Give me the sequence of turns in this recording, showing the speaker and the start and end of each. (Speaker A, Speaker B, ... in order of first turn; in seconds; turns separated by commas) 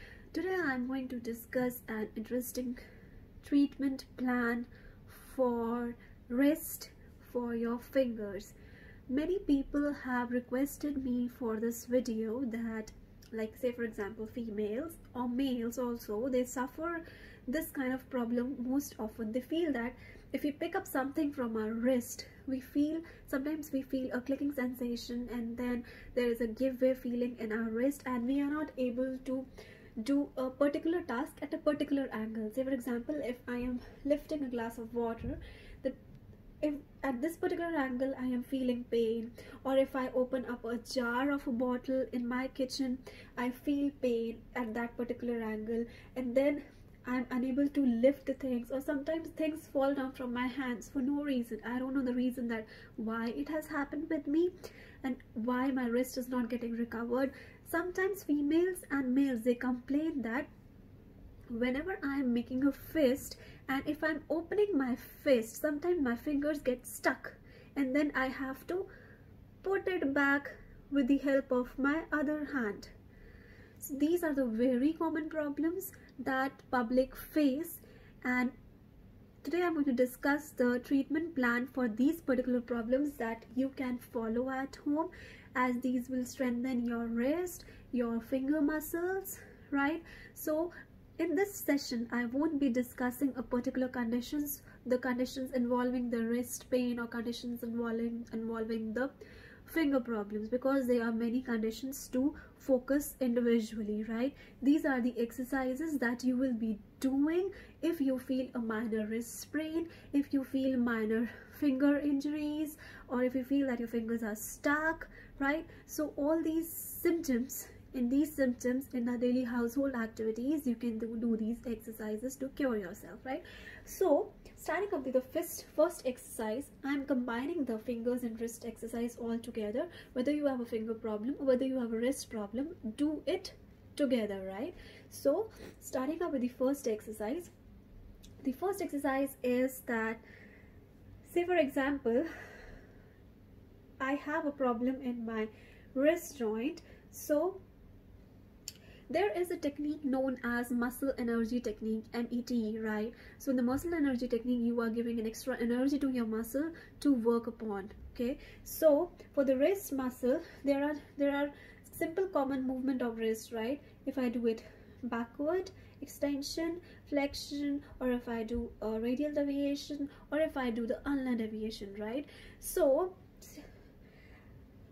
Speaker A: 0.3-2.8, Speaker A: 3.4-8.5, Speaker A: 9.1-29.5, Speaker A: 30.0-36.0, Speaker A: 36.6-54.5, Speaker A: 55.0-60.5, Speaker A: 61.5-68.9, Speaker A: 69.6-72.9, Speaker A: 73.8-78.5, Speaker A: 79.4-99.1, Speaker A: 99.7-137.5, Speaker A: 138.4-140.2, Speaker A: 141.2-142.3, Speaker A: 144.0-147.6, Speaker A: 149.1-173.6